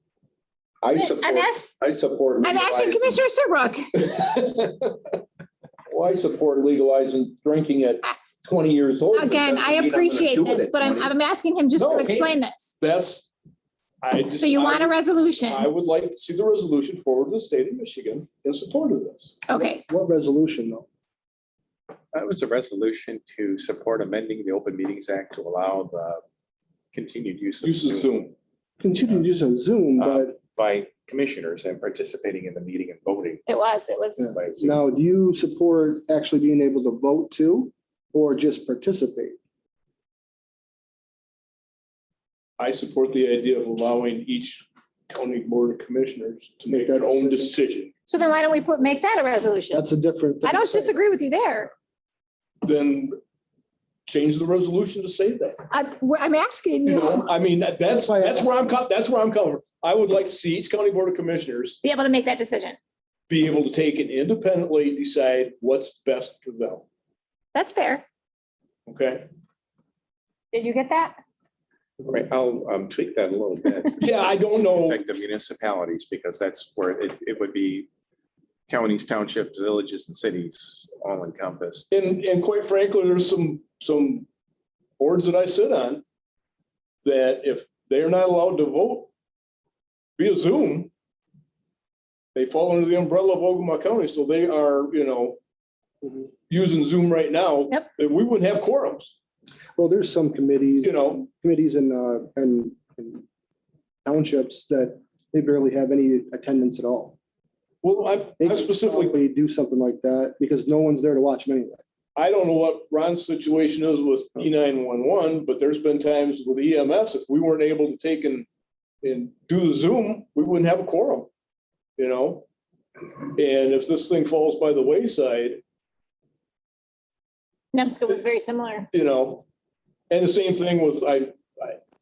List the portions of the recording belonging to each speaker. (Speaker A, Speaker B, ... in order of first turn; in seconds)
Speaker A: 0.8-3.2, 4.0-4.9, 5.9-11.1, 11.8-12.2
Speaker B: 0.9-1.7, 2.4-4.1, 9.1-12.8, 14.4-15.7, 19.5-19.8, 33.5-34.2, 48.1-49.9, 50.4-51.7, 55.7-57.3, 61.8-62.8, 67.5-68.0, 70.5-71.2, 127.7-128.9
Speaker C: 11.8-13.3, 14.0-19.4, 27.6-28.4, 42.6-47.9, 52.6-53.2, 54.1-55.6, 56.9-61.8, 63.3-66.8, 68.9-69.3, 74.0-75.0, 81.9-84.3, 85.0-86.0, 87.0-89.1, 90.2-90.9, 92.3-95.4, 96.5-99.1, 100.8-101.2, 107.8-109.2, 112.2-118.5, 119.0-121.3, 122.0-122.5, 123.3-125.6, 128.9-129.5, 130.1-131.8
Speaker D: 19.5-20.9, 28.8-30.4, 34.2-39.4, 46.7-47.5, 49.7-51.0, 57.9-58.7, 96.0-96.3, 99.8-103.2, 104.0-107.2, 108.4-111.8
Speaker E: 22.1-26.2, 26.9-28.2, 30.0-33.5, 34.3-34.8, 72.0-77.9, 78.7-81.9